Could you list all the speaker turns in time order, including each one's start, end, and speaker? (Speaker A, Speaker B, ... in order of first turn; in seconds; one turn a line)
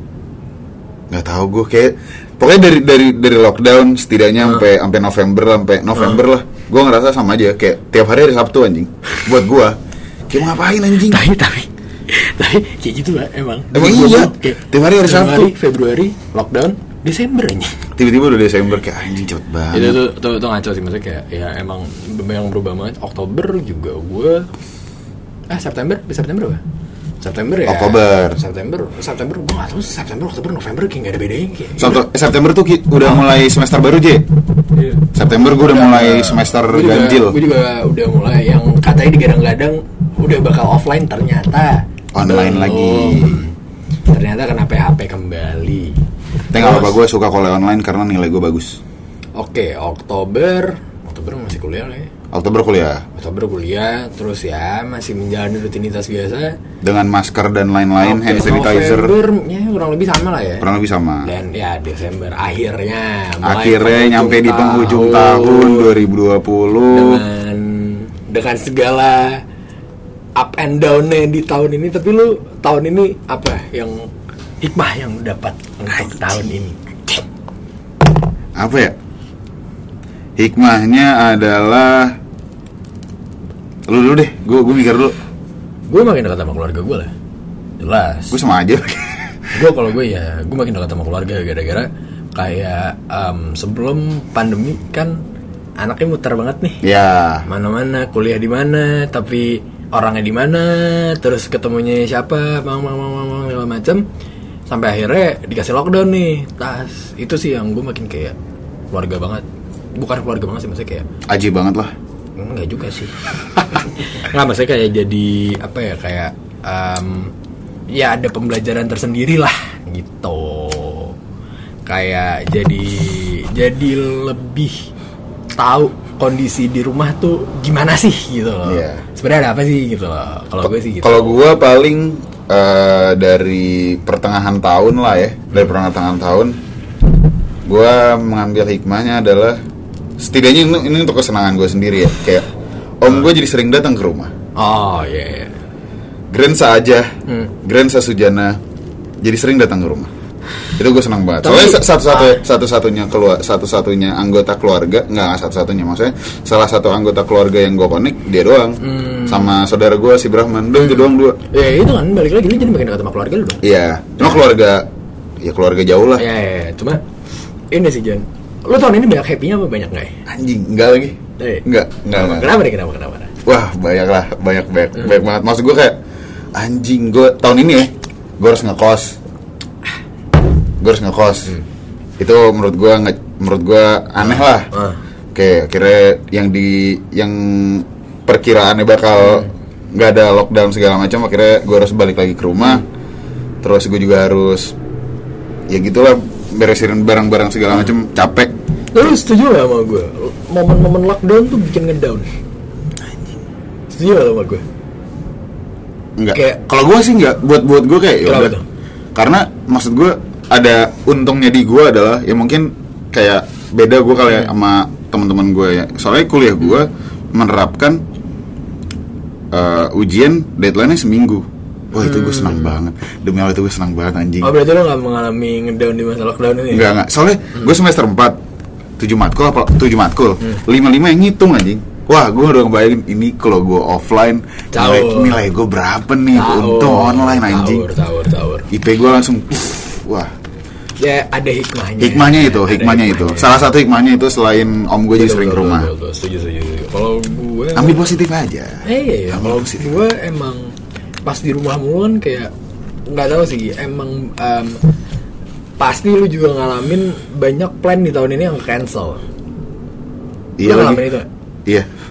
Speaker A: 1.1-9.8
Speaker A: 10.3-11.2
Speaker B: 11.0-17.9
Speaker A: 13.7-15.5
Speaker A: 18.0-20.0
Speaker B: 19.7-24.5
Speaker B: 25.5-26.6
Speaker B: 27.2-32.0
Speaker A: 27.7-28.4
Speaker A: 31.8-34.2
Speaker A: 35.1-37.4
Speaker B: 35.2-43.5
Speaker A: 42.1-43.5
Speaker B: 44.1-46.0
Speaker A: 46.5-48.8
Speaker B: 46.5-47.0
Speaker B: 49.4-52.1
Speaker A: 52.3-53.0
Speaker B: 53.1-56.6
Speaker A: 56.8-59.1
Speaker B: 58.0-60.7
Speaker A: 60.6-61.3
Speaker B: 61.2-66.0
Speaker A: 63.4-67.2
Speaker B: 66.9-69.4
Speaker B: 70.4-74.1
Speaker B: 74.6-77.3
Speaker A: 75.9-76.3
Speaker A: 78.6-79.0
Speaker A: 80.4-82.2
Speaker A: 83.9-85.2
Speaker B: 85.9-87.1
Speaker B: 87.8-88.3
Speaker A: 88.3-89.5
Speaker B: 89.5-95.2
Speaker B: 95.8-96.8
Speaker A: 96.8-97.5
Speaker B: 97.5-104.0
Speaker B: 104.7-108.4
Speaker B: 108.9-109.4
Speaker B: 110.0-111.1
Speaker A: 111.3-111.9
Speaker B: 112.4-113.2
Speaker B: 114.0-117.3
Speaker B: 117.9-121.2
Speaker B: 121.9-124.9
Speaker B: 125.5-131.4
Speaker A: 128.6-129.0
Speaker A: 131.0-136.6
Speaker A: 137.7-139.6
Speaker A: 140.2-142.5
Speaker A: 143.0-144.3
Speaker B: 144.6-145.6
Speaker A: 146.3-147.1
Speaker B: 147.3-147.5
Speaker A: 147.6-148.6
Speaker A: 149.2-150.1
Speaker A: 150.7-161.4
Speaker B: 151.4-152.4
Speaker B: 158.8-159.6
Speaker B: 160.8-163.6
Speaker A: 163.6-164.9
Speaker B: 164.2-164.5
Speaker A: 165.4-166.2
Speaker B: 166.2-167.0
Speaker B: 167.7-170.2
Speaker A: 170.3-172.5
Speaker B: 171.4-173.3
Speaker A: 173.4-176.0
Speaker A: 176.6-179.2
Speaker A: 180.8-181.6
Speaker A: 182.2-184.7
Speaker B: 184.2-185.0
Speaker A: 185.3-192.9
Speaker B: 189.2-189.5
Speaker A: 193.6-194.8
Speaker A: 195.7-198.5
Speaker B: 198.9-202.3
Speaker B: 203.9-204.6
Speaker A: 206.2-208.6
Speaker B: 206.3-206.6
Speaker B: 208.2-208.6
Speaker A: 209.2-218.0
Speaker A: 219.5-224.5
Speaker B: 222.0-222.7
Speaker B: 224.4-226.9
Speaker A: 226.7-228.4
Speaker A: 229.0-237.9
Speaker B: 234.7-235.4
Speaker B: 236.3-238.7
Speaker A: 238.7-240.3
Speaker B: 241.0-243.7
Speaker A: 242.0-245.9
Speaker B: 245.2-248.1
Speaker A: 247.8-249.9
Speaker B: 248.8-250.7
Speaker B: 251.2-252.5
Speaker B: 253.1-254.9
Speaker B: 255.8-259.2
Speaker A: 260.6-261.1
Speaker B: 260.6-261.3